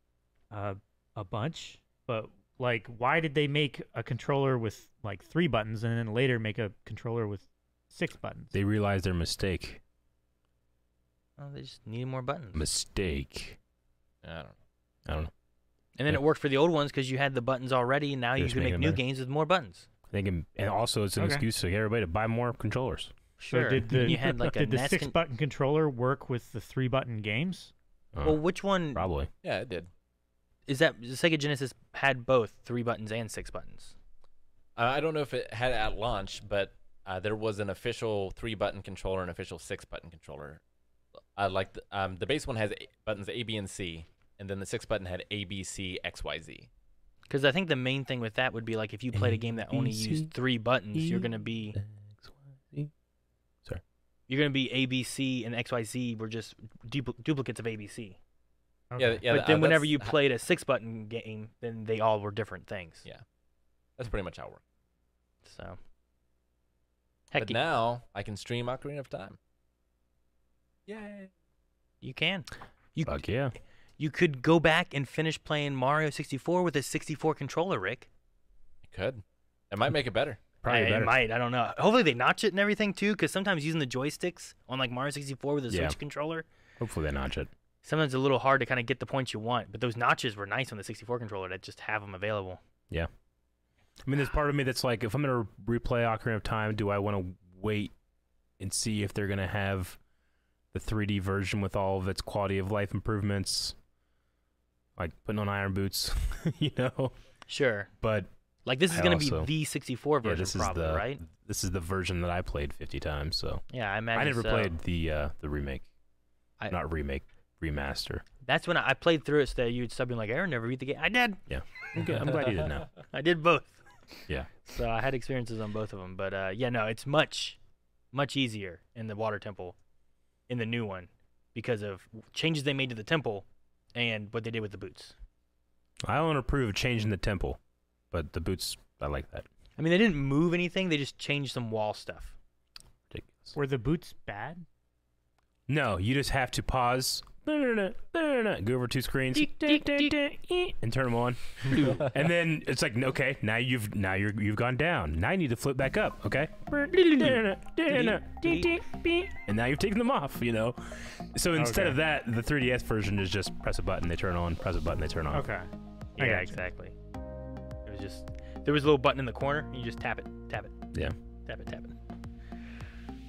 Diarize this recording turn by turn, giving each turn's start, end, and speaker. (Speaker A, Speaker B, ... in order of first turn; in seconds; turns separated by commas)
Speaker A: 0.5-8.5, Speaker B: 8.5-9.8, Speaker C: 11.4-12.7, Speaker B: 12.5-13.6, Speaker D: 14.2-14.6, Speaker C: 16.0-19.9, Speaker B: 18.4-19.0, Speaker B: 20.1-23.1, Speaker A: 21.2-21.5, Speaker C: 23.4-25.2, Speaker A: 23.5-27.7, Speaker B: 28.1-29.3, Speaker C: 28.2-29.1, Speaker D: 29.4-29.9, Speaker C: 30.7-34.0, Speaker D: 34.8-40.6, Speaker D: 41.4-46.7, Speaker C: 47.3-51.8, Speaker B: 49.1-50.3, Speaker B: 50.9-52.9, Speaker C: 54.3-58.2, Speaker A: 58.9-59.2, Speaker D: 59.0-60.2, Speaker C: 59.2-63.0, Speaker D: 64.0-64.6, Speaker C: 65.4-65.8, Speaker C: 67.3-67.6, Speaker D: 67.4-69.4, Speaker D: 70.9-71.3, Speaker C: 72.0-73.5, Speaker B: 73.0-73.5, Speaker C: 74.0-78.1, Speaker D: 78.8-80.4, Speaker B: 80.6-81.2, Speaker C: 80.7-86.5, Speaker B: 85.7-86.0, Speaker B: 86.8-87.5, Speaker C: 87.8-92.6, Speaker B: 94.0-97.9, Speaker B: 98.6-100.0, Speaker B: 100.7-103.8, Speaker B: 105.0-107.2, Speaker C: 107.5-107.9, Speaker B: 108.0-108.3, Speaker C: 108.7-111.2, Speaker B: 108.9-109.5, Speaker B: 110.2-115.9, Speaker C: 113.7-114.8, Speaker B: 116.7-118.2, Speaker C: 118.5-121.4, Speaker B: 121.5-123.0, Speaker C: 123.1-127.6, Speaker C: 128.1-129.8, Speaker C: 130.5-135.2, Speaker B: 136.1-137.6, Speaker B: 138.1-139.5, Speaker C: 139.8-142.3, Speaker B: 143.1-143.6, Speaker A: 143.6-144.7, Speaker B: 145.7-165.5, Speaker A: 149.5-150.1, Speaker C: 157.9-158.7, Speaker A: 161.6-162.0, Speaker A: 165.3-166.6, Speaker C: 166.2-167.0, Speaker C: 167.8-170.8, Speaker C: 171.4-172.0